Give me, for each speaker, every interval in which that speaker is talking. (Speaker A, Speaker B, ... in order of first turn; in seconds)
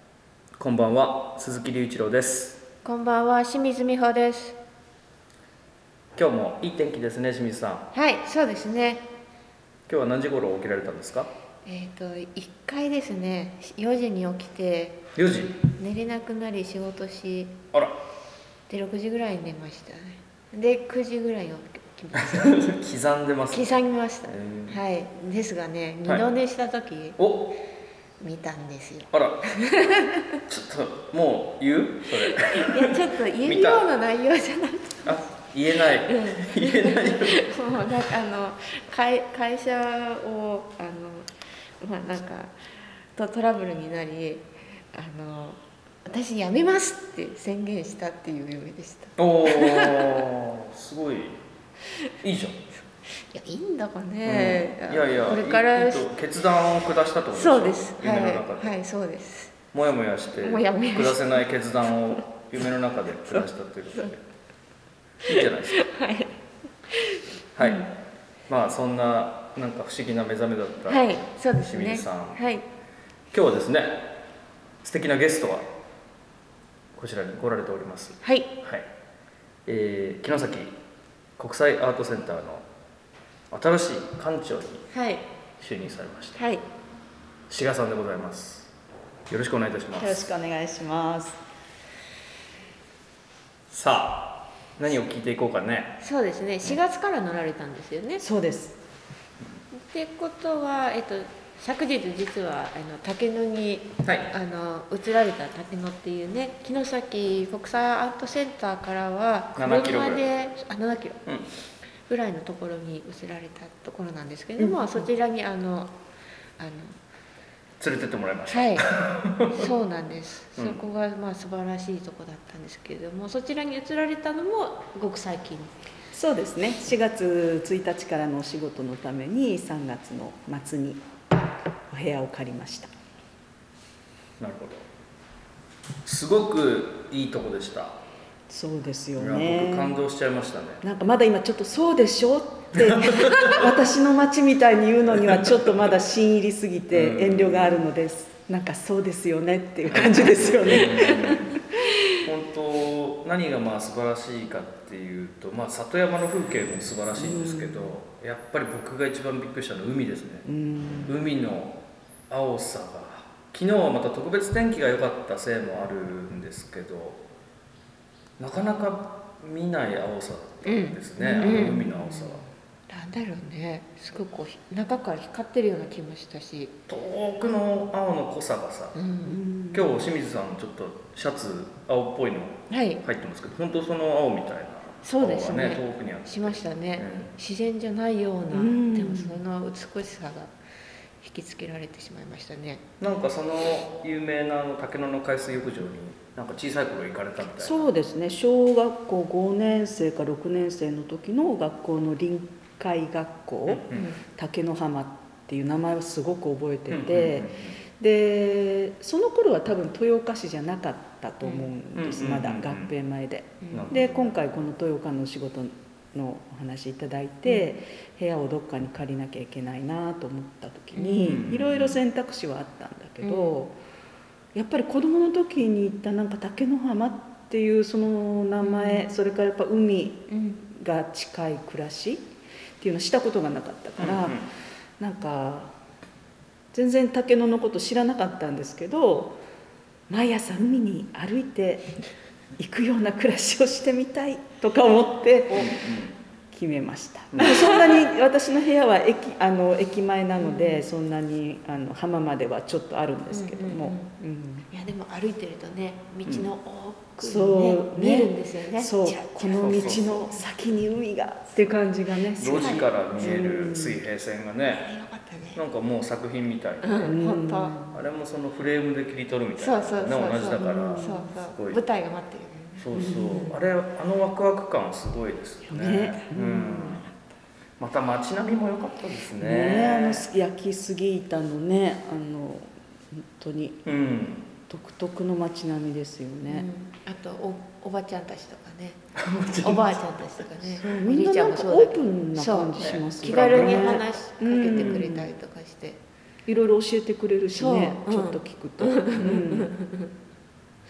Speaker A: 0.6-2.6, 6.1-7.9, 9.9-11.3, 15.2-15.6, 22.1-24.8, 27.2-27.5, 29.1-29.6, 30.5-33.9, 35.0-37.5, 49.2-51.4, 52.2-52.6, 54.2-58.7, 59.7-64.2, 65.2-65.8, 67.5-67.9, 68.5-72.4, 73.3-74.2, 74.8-75.7, 77.0-78.9, 79.7-80.8, 81.4-82.6, 83.5-84.8, 85.6-86.4, 87.5-88.7, 89.3-90.2, 93.7-96.0, 104.0-104.3, 109.5-110.2, 117.8-119.7, 120.5-120.8, 134.4-134.9, 136.0-138.0, 139.2-140.8, 142.8-143.6, 145.3-145.7, 146.9-147.8, 149.9-160.4, 161.1-161.8, 162.3-167.2, 168.4-172.4, 176.9-179.0, 179.7-187.3, 193.0-197.9, 203.7-204.1, 206.9-207.8, 211.9-212.9, 213.7-214.1, 221.2-221.9, 234.0-234.4, 245.5-246.1, 247.3-247.6, 256.2-256.5, 259.6-260.2, 262.4-264.9, 265.5-267.2, 267.9-271.8, 272.8-277.1, 277.8-280.3, 283.8-284.5, 289.1-290.0, 292.8-294.0, 294.7-295.0
Speaker B: 2.8-4.6, 7.9-9.0, 11.6-15.1, 15.7-17.6, 18.7-22.7, 23.5-27.2, 28.2-30.4, 32.2-35.2, 35.8-50.2, 53.2-56.1, 57.3-59.6, 60.4-61.4, 65.2-66.3, 66.9-67.9, 70.9-72.6, 78.2-78.5, 84.9-85.2, 86.4-86.6, 96.0-98.2, 99.7-111.2, 112.1-115.9, 116.6-117.0, 118.5-118.9, 119.4-125.7, 151.0-151.4, 170.6-171.9, 172.9-176.7, 178.9-179.4, 182.7-183.0, 185.0-190.5, 191.2-192.8, 203.9-204.2, 211.4-211.7, 213.6-214.1, 220.9-221.4, 223.2-223.5, 228.6-229.1, 230.3-230.6, 250.4-250.8, 253.3-254.1, 254.7-260.3, 264.6-265.6, 266.8-267.8, 269.6-273.5, 286.5-289.1, 289.6-296.0, 297.6-300.1
Speaker C: 89.9-91.4, 98.2-98.8, 126.1-131.1, 131.9-132.9, 138.5-140.0, 140.8-151.6, 157.2-157.9, 160.4-161.1, 171.2-171.9, 179.2-179.9, 188.5-189.4, 197.6-223.7, 224.5-232.3, 232.8-234.4, 235.0-235.7, 236.7-239.4, 240.1-241.9, 242.6-245.9, 246.5-254.7, 257.2-264.0, 267.0-268.0, 270.6-271.3, 272.9-273.5, 275.7-277.1, 279.4-283.8, 284.7-286.6, 290.8-295.3, 296.5-299.7